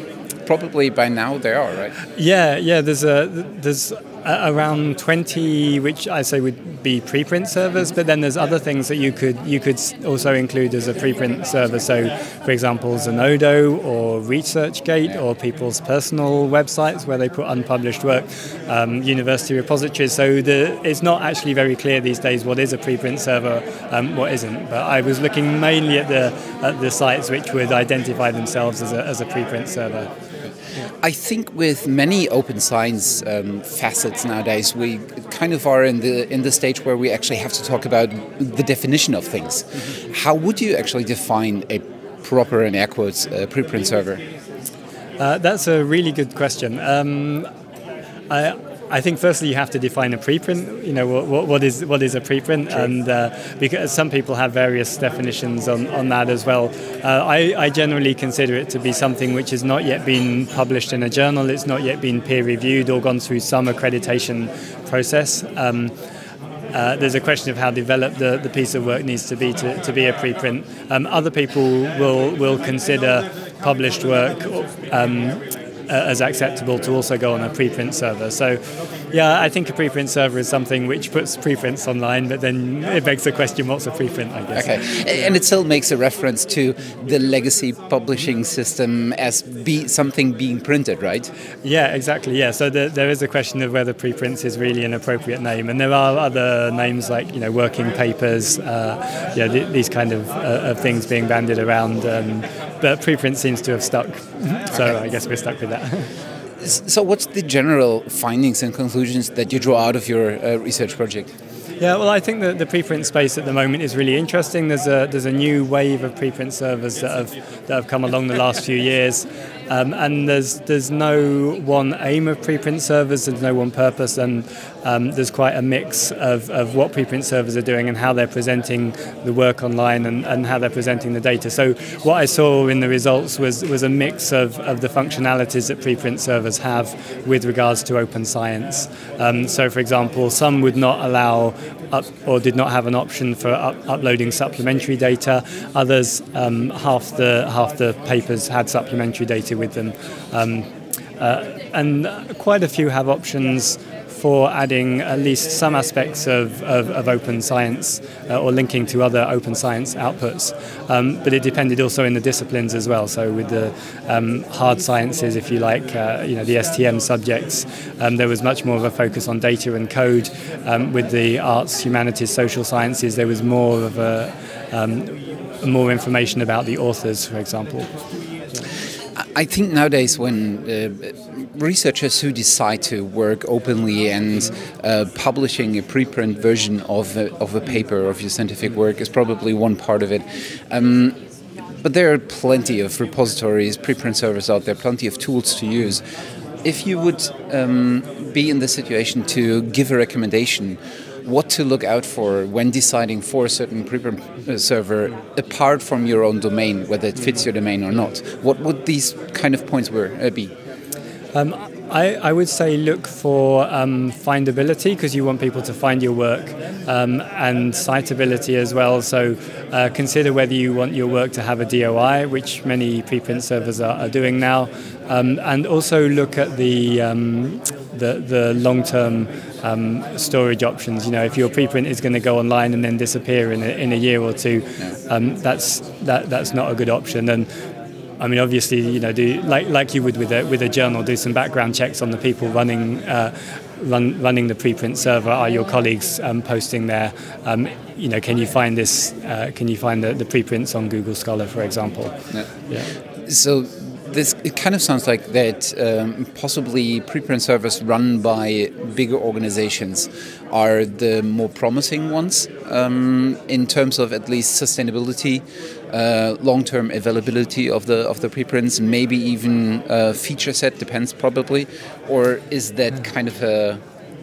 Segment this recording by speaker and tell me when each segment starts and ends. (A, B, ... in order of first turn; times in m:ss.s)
0:00.4-0:01.9 A
0:02.2-0:30.1 B
0:31.0-0:44.2 A
0:45.2-0:47.5 B
0:48.3-1:05.9 B
1:06.7-1:18.6 B
1:19.1-1:24.7 B
1:24.6-1:31.3 A
1:31.6-1:46.1 B
1:46.6-1:51.3 A
1:51.8-2:30.7 B
2:31.2-2:57.9 B
2:59.2-3:11.2 A
3:11.8-3:16.0 A
3:16.6-3:30.5 A
3:31.3-3:57.5 B
3:58.2-4:12.1 B
4:13.2-4:33.8 A